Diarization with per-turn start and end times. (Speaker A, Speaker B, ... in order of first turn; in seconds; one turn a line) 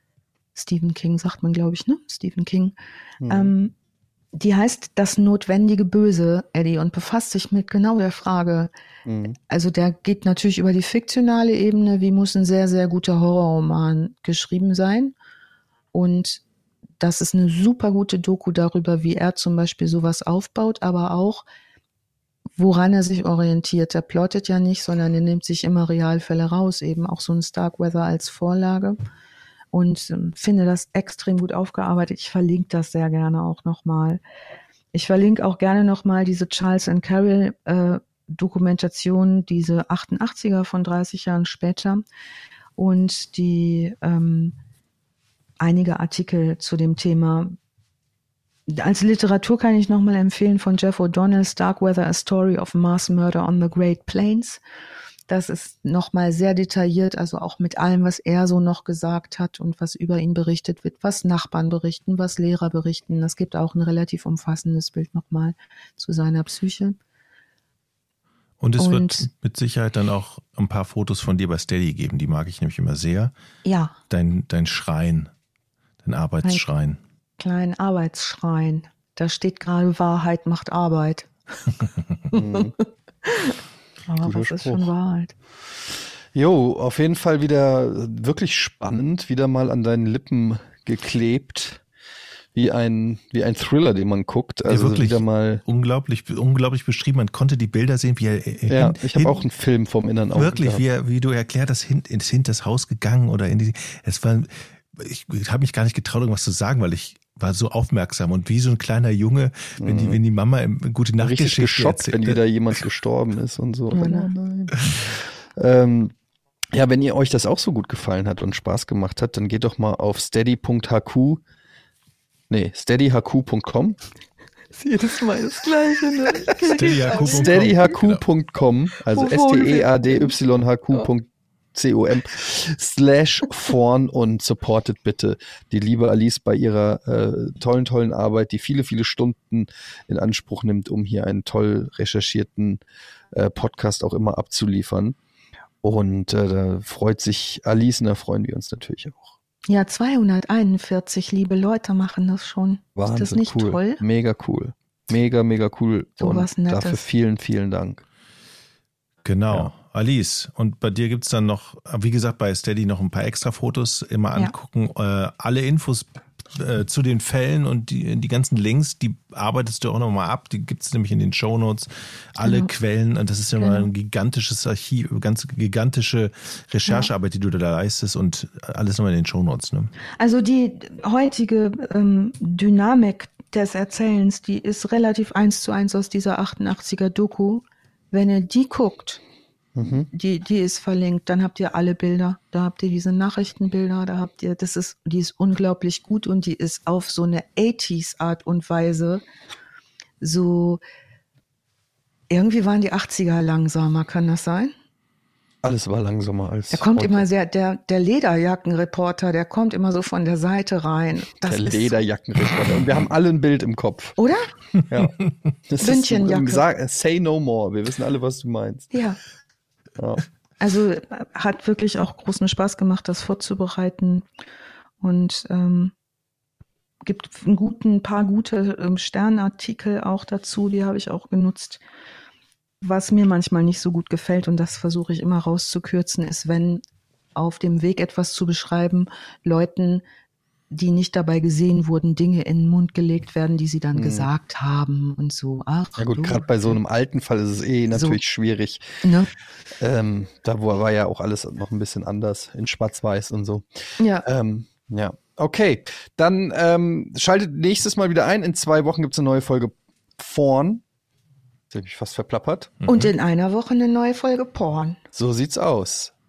Speaker A: 0.5-2.8
Speaker B: 3.2-3.5
Speaker A: 3.3-3.7
Speaker A: 4.3-8.7
Speaker B: 9.1-9.4
Speaker A: 9.5-15.1
Speaker A: 15.9-16.4
Speaker A: 17.0-21.4
Speaker A: 22.6-29.0
Speaker A: 29.7-34.2
Speaker A: 34.9-42.0
Speaker A: 42.8-44.6
Speaker A: 45.6-47.6
Speaker A: 48.7-54.6
Speaker A: 55.3-67.0
Speaker C: 68.6-73.3
Speaker A: 68.8-69.3
Speaker A: 73.6-74.0
Speaker C: 74.1-75.3
Speaker C: 76.0-77.0
Speaker A: 77.4-81.3
Speaker A: 82.3-82.7
Speaker B: 82.3-82.7
Speaker A: 83.2-85.3
Speaker B: 84.2-84.9
Speaker B: 86.3-91.8
Speaker B: 92.5-95.6
Speaker C: 94.7-99.4
Speaker B: 98.7-100.8
Speaker C: 100.3-112.8
Speaker B: 109.8-110.2
Speaker B: 111.2-116.1
Speaker A: 113.9-114.7
Speaker B: 116.7-121.4
Speaker B: 122.5-124.0
Speaker A: 124.8-127.7
Speaker C: 126.6-128.2
Speaker B: 126.7-142.8
Speaker A: 129.1-130.3
Speaker B: 143.3-145.2
Speaker B: 145.8-149.3
Speaker A: 149.7-154.0
Speaker B: 153.0-158.0
Speaker A: 156.2-157.0
Speaker C: 159.2-179.9
Speaker A: 172.4-172.7
Speaker A: 173.6-173.9
Speaker A: 180.2-189.2
Speaker B: 189.8-190.1
Speaker A: 190.1-199.2
Speaker A: 200.2-200.8
Speaker A: 202.3-204.7
Speaker B: 205.6-207.2
Speaker A: 206.7-211.9
Speaker B: 211.4-214.2
Speaker A: 214.2-214.5
Speaker B: 214.9-218.9
Speaker A: 215.8-216.6
Speaker A: 218.9-219.2
Speaker B: 220.0-220.2
Speaker A: 220.6-224.2
Speaker A: 225.0-225.9
Speaker A: 227.0-231.8
Speaker A: 232.8-236.8
Speaker A: 237.3-240.0
Speaker A: 240.7-246.8
Speaker B: 243.9-244.3
Speaker B: 246.0-248.8
Speaker A: 247.9-248.2
Speaker A: 249.0-249.3
Speaker B: 249.8-260.8
Speaker A: 254.0-254.2
Speaker B: 261.7-262.8
Speaker C: 262.8-263.1
Speaker A: 262.9-265.0
Speaker B: 265.1-266.1